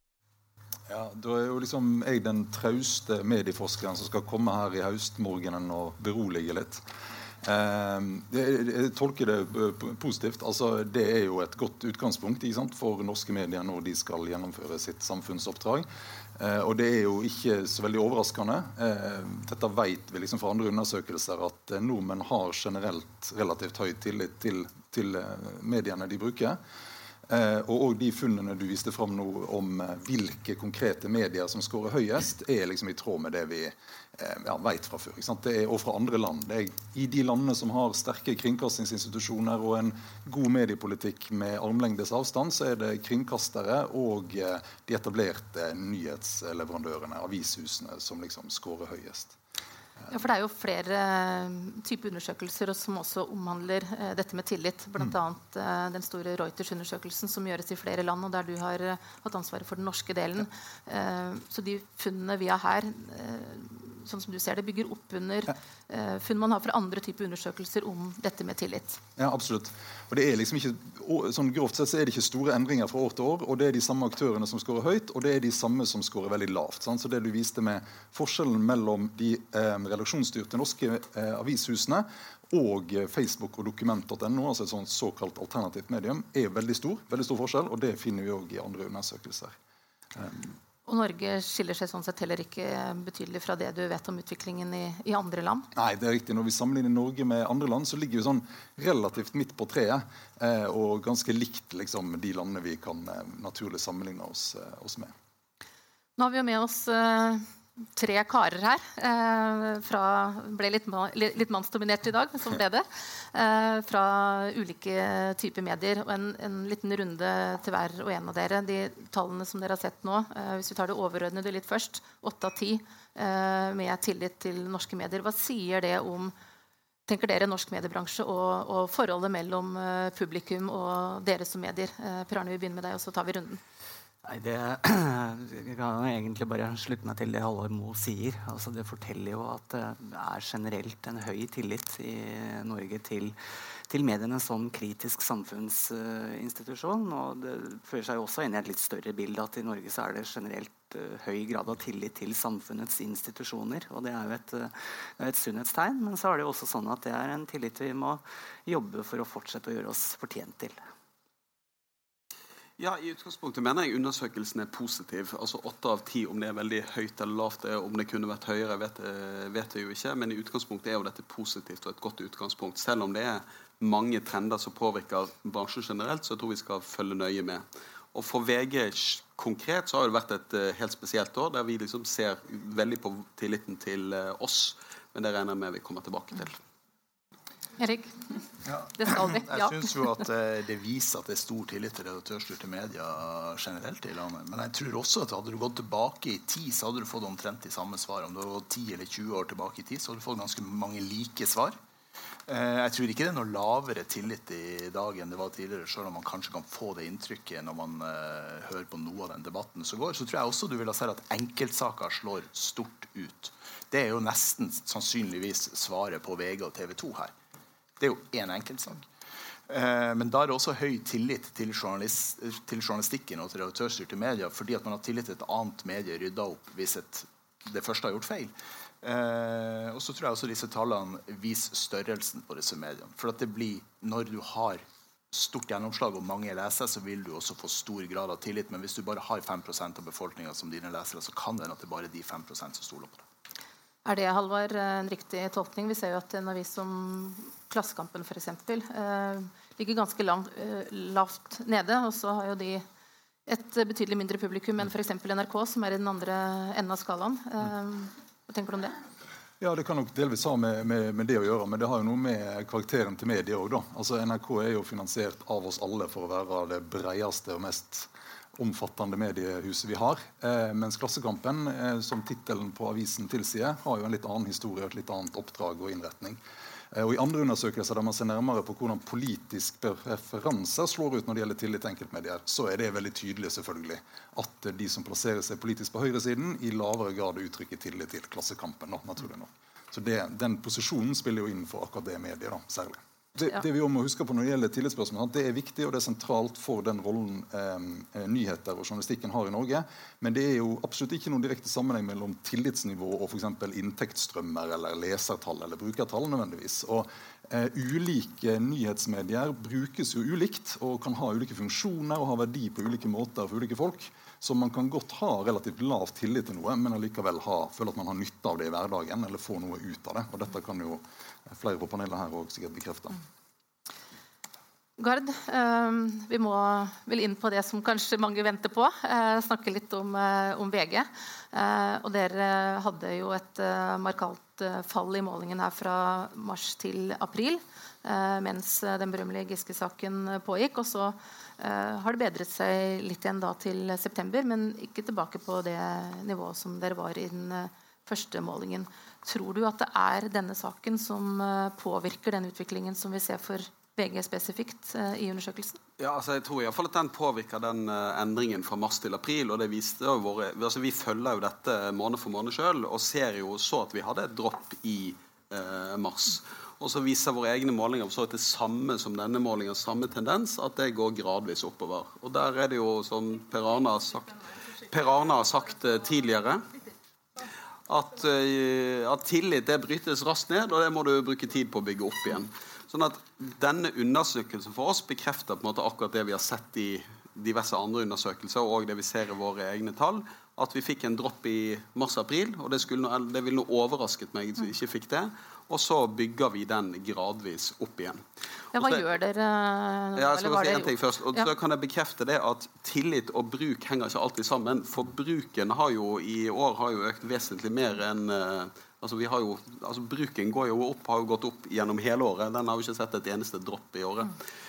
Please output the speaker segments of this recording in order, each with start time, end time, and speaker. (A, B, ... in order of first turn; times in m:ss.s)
0:00.9-0:06.8 A
0:07.4-0:26.6 A
0:27.3-0:49.4 A
0:50.1-1:09.0 B
1:09.2-1:29.6 A
1:30.1-1:30.6 A
1:30.8-1:35.7 B
1:35.7-1:45.1 A
1:46.2-2:06.3 B
2:07.1-2:13.6 B
2:14.2-2:23.4 C
2:23.9-2:40.8 C
2:42.8-3:06.6 D
3:07.8-3:08.4 B
3:08.7-3:21.8 E
3:08.9-3:09.8 B
3:22.5-3:37.3 E
3:38.0-3:39.1 E
3:39.7-4:03.2 E
4:04.0-4:12.9 B
4:13.5-4:19.0 B
4:19.6-4:36.4 A
4:36.9-5:23.2 A
5:25.0-5:55.8 B
5:56.0-6:16.7 D
6:17.9-6:39.0 D
6:38.7-6:41.5 B
6:40.2-6:54.4 D